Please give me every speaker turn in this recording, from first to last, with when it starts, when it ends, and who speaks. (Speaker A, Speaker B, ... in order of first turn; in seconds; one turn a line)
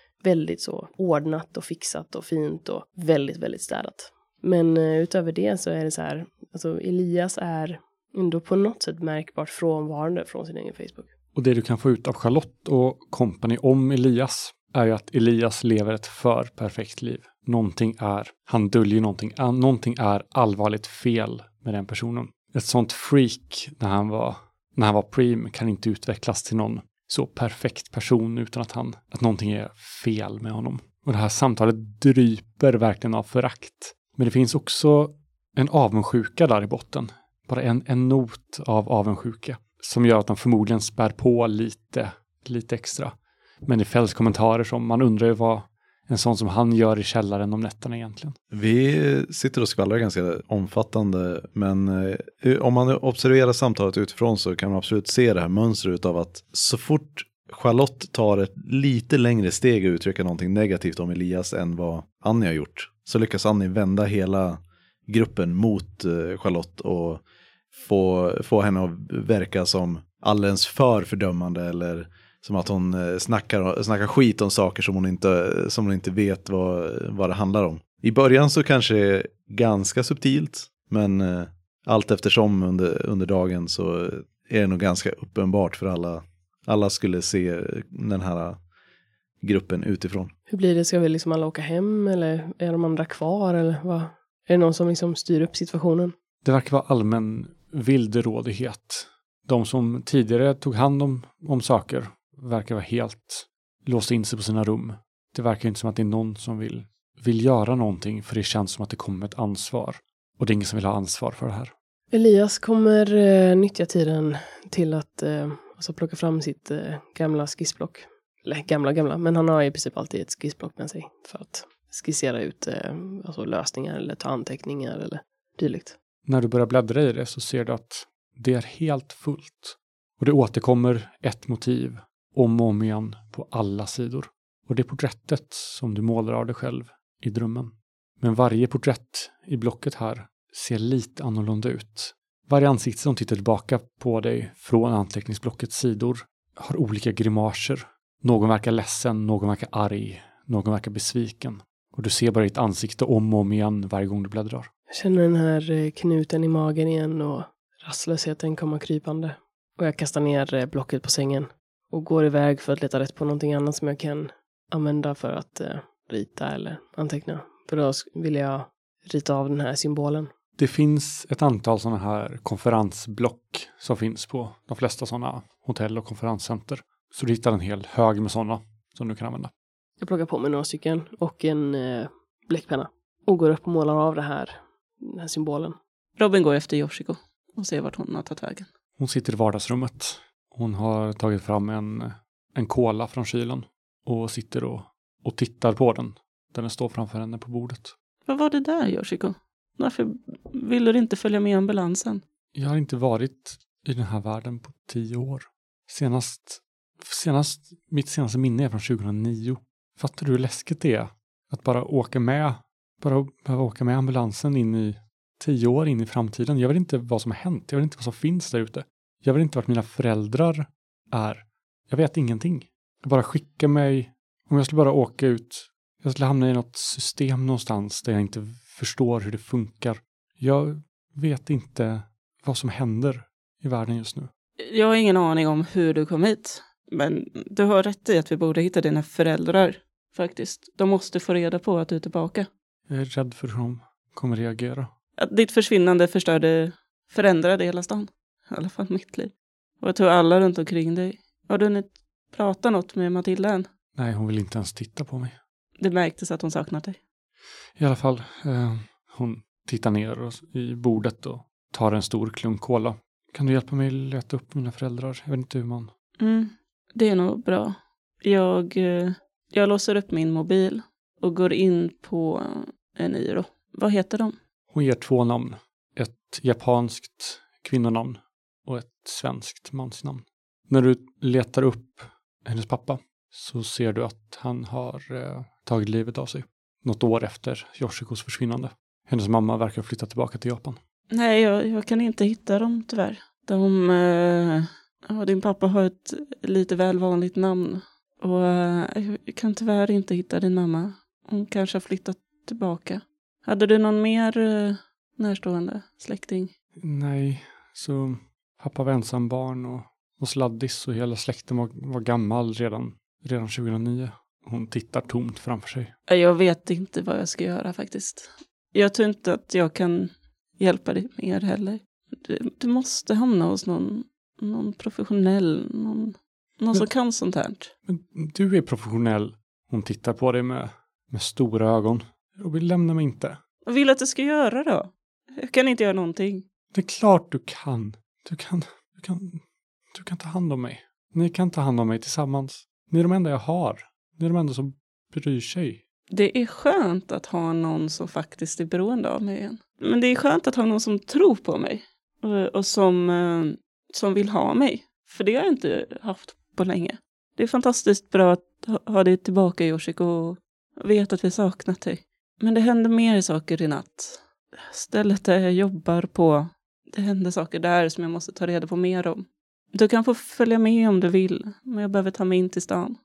Speaker A: 0.2-11.1
Speaker B: 11.3-48.4
Speaker C: 48.5-67.2
Speaker C: 67.7-88.6
Speaker C: 89.4-90.3
Speaker A: 90.5-96.1
Speaker B: 96.4-111.7
Speaker A: 112.1-126.0
Speaker B: 126.2-154.7
Speaker A: 154.9-170.3
Speaker B: 170.6-179.5
Speaker A: 180.0-185.8
Speaker D: 186.2-188.7
Speaker B: 189.0-197.9
Speaker D: 198.2-202.2
Speaker B: 202.5-234.3
Speaker D: 234.6-242.5
Speaker B: 242.9-244.9
Speaker D: 245.2-253.7
Speaker B: 253.9-255.4
Speaker D: 255.8-257.0
Speaker B: 257.8-265.9
Speaker D: 266.2-274.3
Speaker B: 274.7-290.8
Speaker D: 291.1-306.5
Speaker B: 306.8-315.9
Speaker D: 316.1-327.7
Speaker B: 327.9-333.4
Speaker D: 333.6-336.4
Speaker B: 336.7-339.4
Speaker B: 339.9-345.8
Speaker D: 346.1-373.0